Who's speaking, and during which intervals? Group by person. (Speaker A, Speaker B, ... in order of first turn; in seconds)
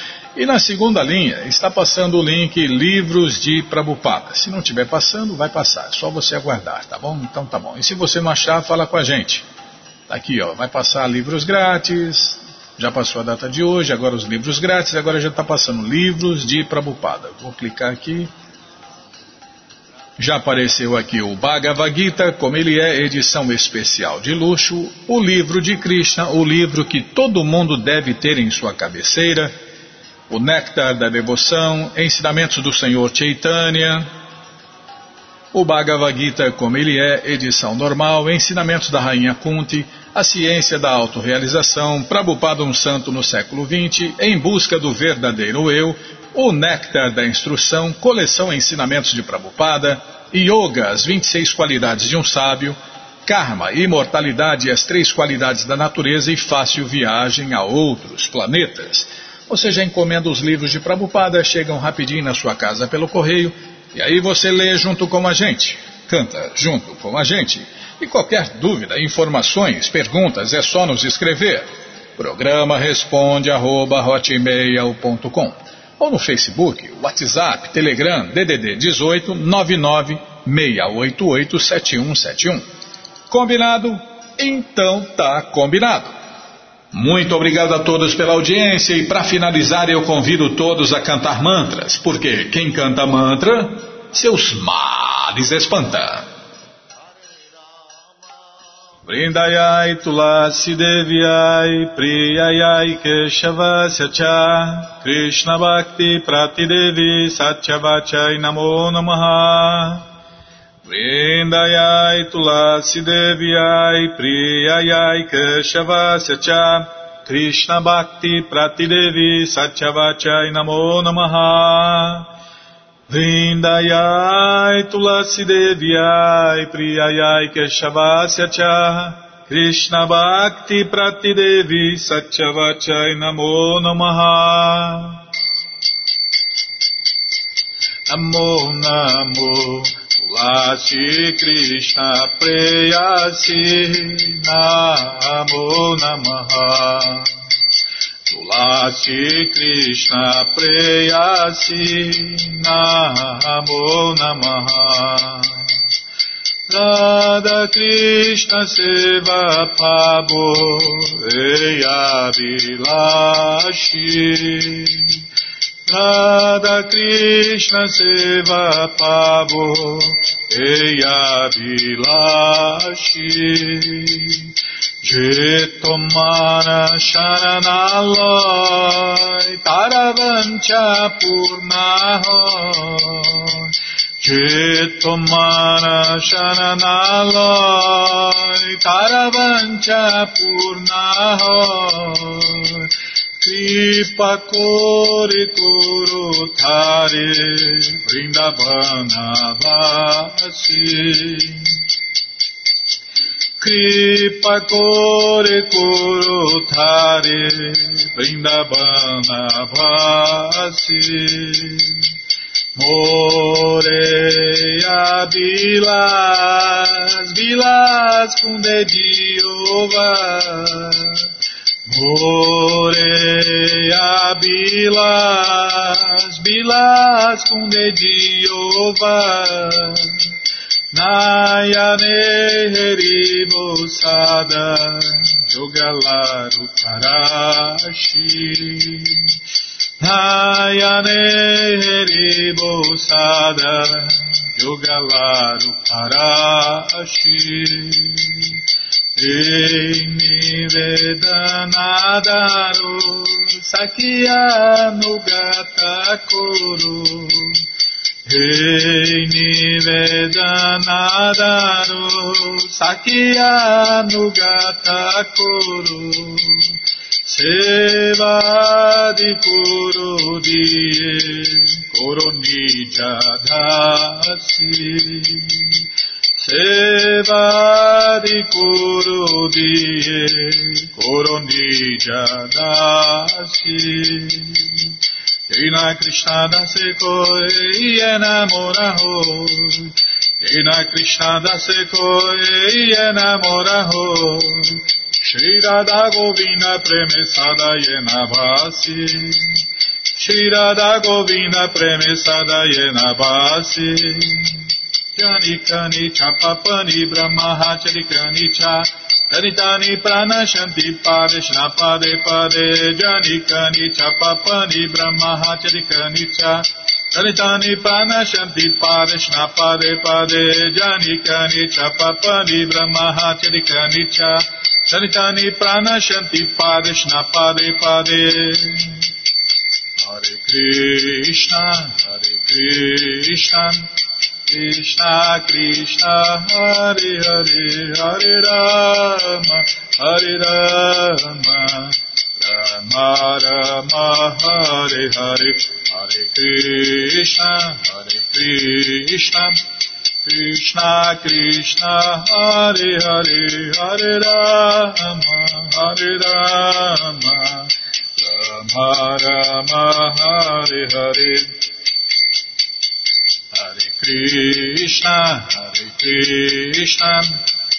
Speaker A: 0.3-9.4, 10.1-18.3, 20.2-29.5, 30.3-34.1, 35.5-82.6, 83.3-86.1, 86.9-96.3, 99.0-110.0, 110.8-122.3, 123.1-135.2, 138.1-147.3, 148.3-155.7, 156.7-165.2, 165.8-201.7, 203.6-212.0, 212.8-221.3, 221.9-230.2, 230.9-239.3, 240.0-248.6, 249.2-257.6, 258.3-275.8, 276.4-284.9, 285.5-299.6, 300.1-329.1, 330.0-333.9, 334.5-349.6, 350.2-361.6, 363.5-367.4